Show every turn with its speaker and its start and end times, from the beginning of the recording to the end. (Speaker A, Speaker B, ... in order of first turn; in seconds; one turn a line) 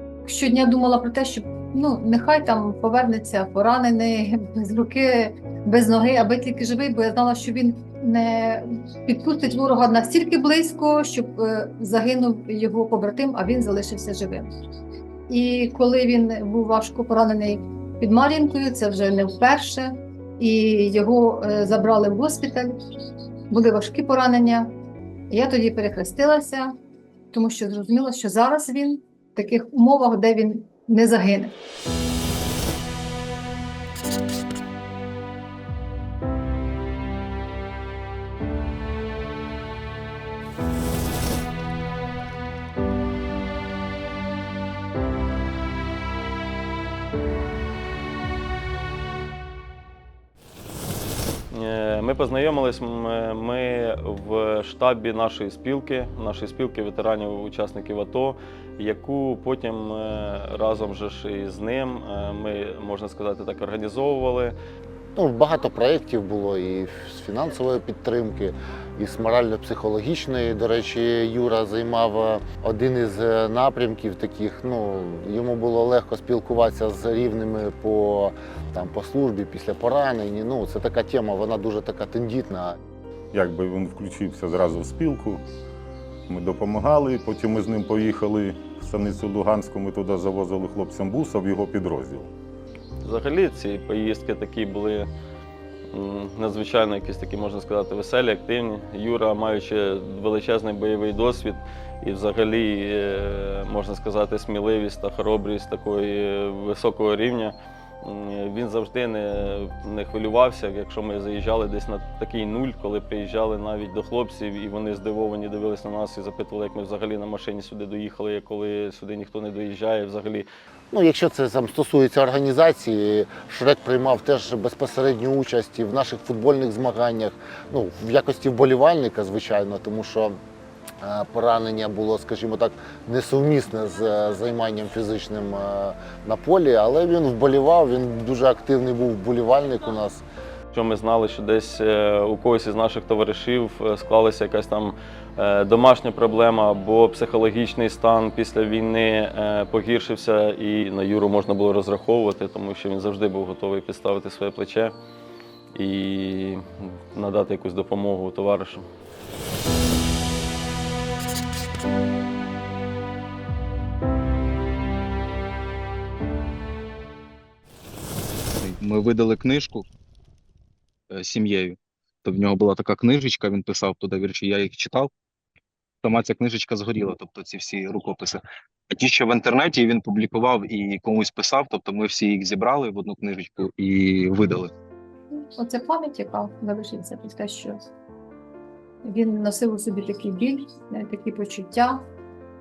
Speaker A: 0.2-14.5
Speaker A: 15.3-22.8
Speaker A: 23.5-24.7
Speaker A: 25.3-26.7
Speaker A: 27.3-31.6
Speaker B: 51.5-64.5
Speaker C: 65.2-82.8
Speaker D: 83.3-85.4
Speaker D: 86.3-92.3
Speaker B: 93.0-95.1
Speaker B: 95.9-120.5
Speaker C: 120.9-130.4
Speaker C: 131.0-140.2
Speaker B: 140.7-154.9
Speaker B: 155.8-158.9
Speaker E: 168.6-169.9
Speaker E: 171.1-175.1
Speaker E: 176.0-184.7
Speaker A: 185.5-187.8
Speaker A: 189.0-192.0